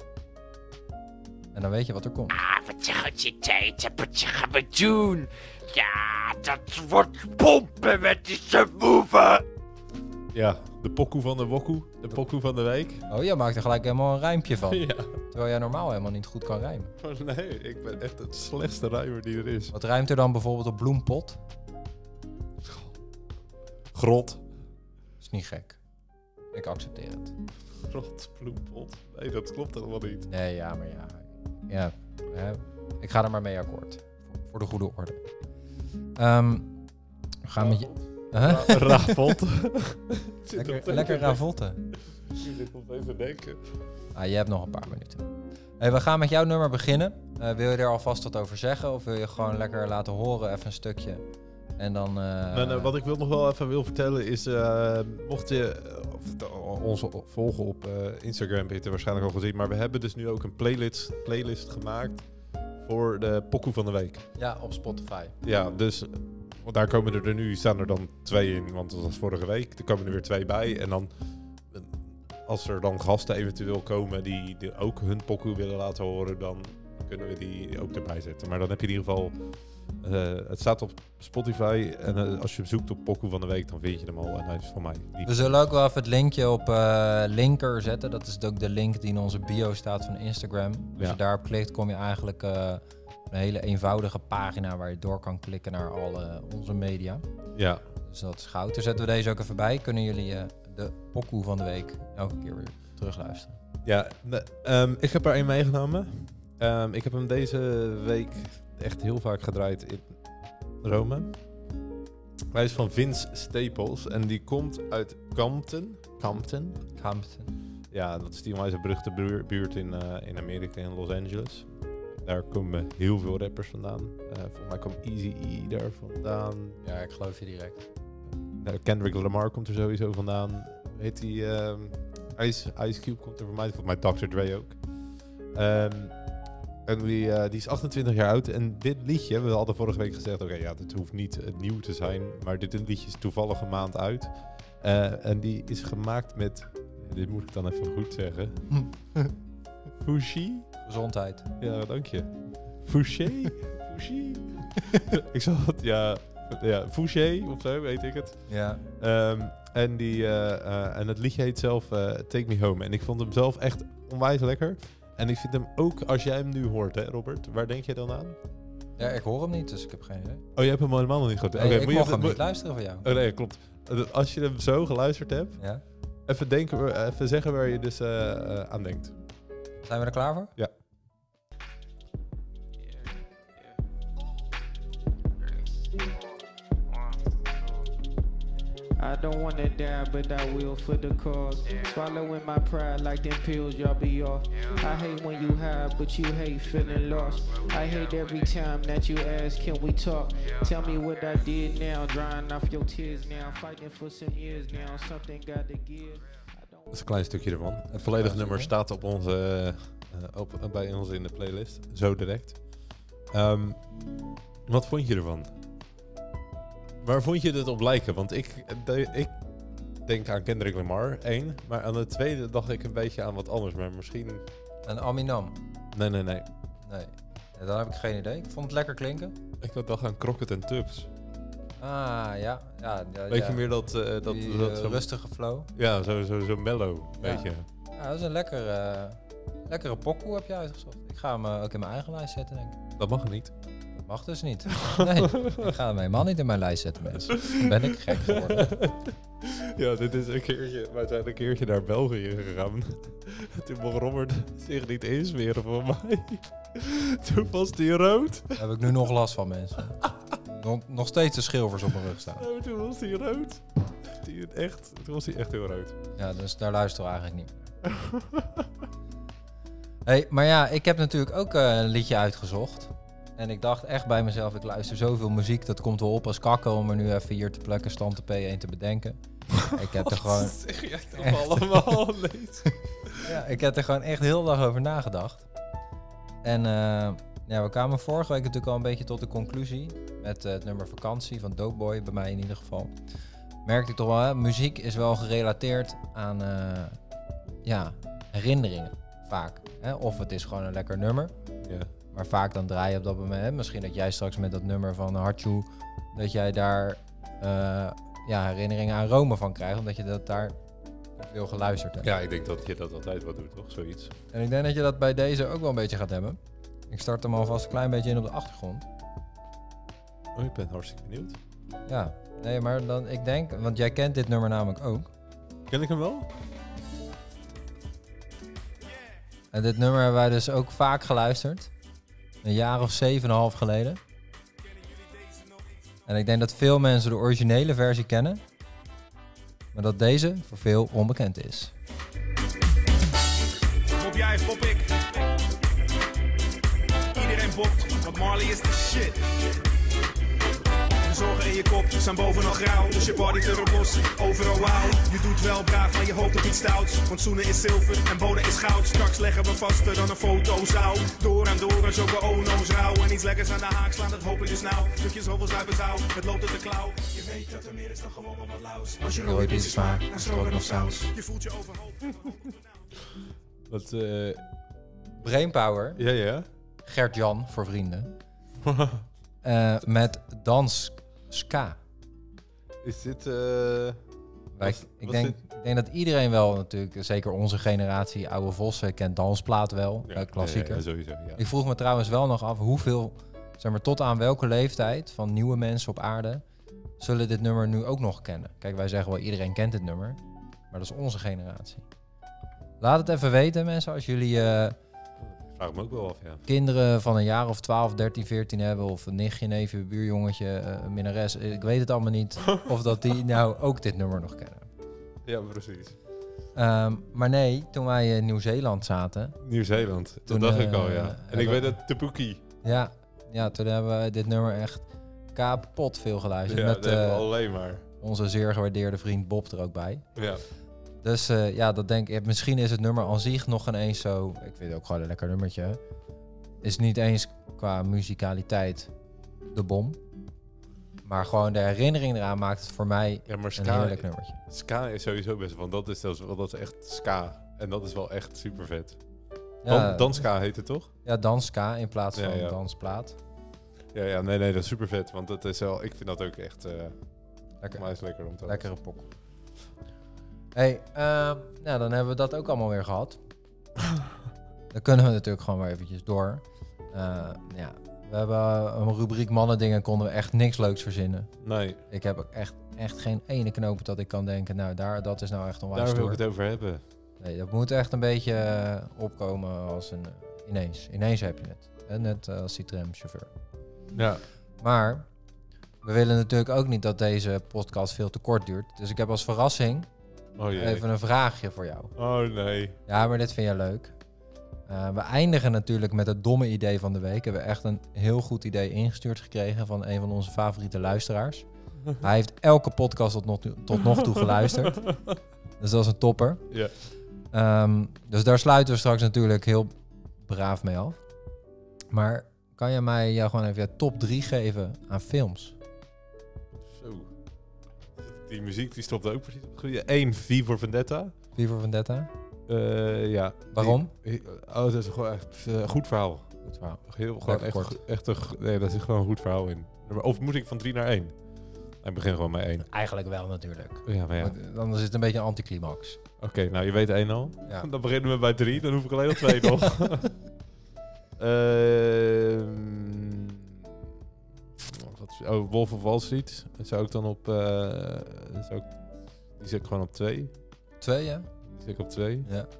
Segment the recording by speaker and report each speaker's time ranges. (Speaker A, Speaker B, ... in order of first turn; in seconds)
Speaker A: 1.5-2.4, 13.1-16.9, 19.7-21.4, 25.2-25.8, 26.5-27.3, 30.3-35.2, 36.1-36.7, 37.4-39.4, 40.5-41.9, 44.1-45.3, 45.8-51.2, 51.8-52.9, 64.3-65.3, 85.2-97.2, 98.0-103.6, 117.0-117.5, 126.8-127.8, 148.8-149.3, 150.8-151.5, 158.5-158.8, 169.0-170.4, 171.5-173.1, 179.8-180.5, 207.9-208.7, 224.8-225.6, 226.8-229.4, 231.8-233.7, 234.2-235.7, 237.2-242.8, 243.9-248.7, 258.6-262.4, 266.1-267.7, 270.0-280.6, 281.1-281.9, 283.2-285.4, 286.4-293.0, 293.6-297.0, 297.6-301.3, 302.1-310.6, 311.2-312.1, 314.3-318.9, 321.9-325.1, 329.5-331.7, 332.4-334.0, 336.1-338.4, 339.7-341.7, 369.1-371.1, 375.2-376.0, 376.8-378.1, 379.4-381.8, 384.5-396.4, 397.0-400.2, 400.7-401.9, 402.8-404.8, 406.4-414.7, 416.5-419.4, 420.3-421.8, 422.6-427.3, 428.0-430.1, 431.0-435.8, 436.6-438.9, 439.5-440.0, 441.0-444.4, 449.6-450.2, 451.0-453.2, 457.6-459.1, 460.5-463.2, 464.7-471.3, 471.9-476.2, 477.2-483.3, 484.6-485.1, 485.8-489.9, 490.5-491.9, 492.9-493.9, 494.7-501.4, 502.0-504.9, 505.6-506.5, 507.3-511.0, 511.9-515.6, 521.3-522.1, 523.5-523.9, 526.4-527.8, 532.7-536.0, 550.8-551.3
Speaker B: 2.3-9.4
Speaker C: 10.3-13.1, 14.6-15.1, 17.0-19.7, 22.6-22.9, 23.9-24.4, 27.8-30.3, 37.5-41.4, 41.9-43.8, 52.5-62.2, 62.8-64.2, 65.4-71.1, 71.7-85.7, 97.5-97.8, 103.8-110.2, 110.8-111.3, 112.5-116.8, 117.9-126.8, 128.5-134.8, 135.5-136.2, 136.8-148.8, 150.0-150.7, 151.6-168.4, 170.6-172.4, 173.0-175.6, 176.2-179.1, 206.9-213.8, 214.7-215.5, 217.0-219.3, 220.0-224.4, 225.9-226.5, 229.6-231.1, 233.3-235.1, 235.7-237.6, 243.0-243.5, 244.7-245.7, 247.3-258.7, 262.4-265.9, 267.8-268.6, 279.9-283.3, 301.6-301.9, 312.0-314.1, 320.3-321.4, 325.7-326.3, 373.7-374.4, 375.9-376.5, 378.6-379.0, 382.8-384.0, 384.6-385.4, 390.1-391.4, 405.2-406.4, 415.2-415.9, 419.4-422.4, 426.4-427.8, 430.1-430.4, 443.3-449.0, 449.6-450.9, 452.1-452.6, 453.9-457.0, 457.7-458.7, 471.4-471.8, 475.7-476.8, 483.9-484.2, 490.4-490.8, 491.9-492.8, 504.8-505.1, 516.6-517.1, 518.0-521.1, 522.5-526.3, 526.8-531.2, 531.8-532.7, 533.9-534.3, 536.2-540.1, 541.2-543.6, 544.6-548.8, 549.4-550.3, 551.5-552.3
Speaker D: 189.0-206.9
Speaker E: 334.6-335.8, 343.9-345.1, 347.1-349.3, 351.0-372.9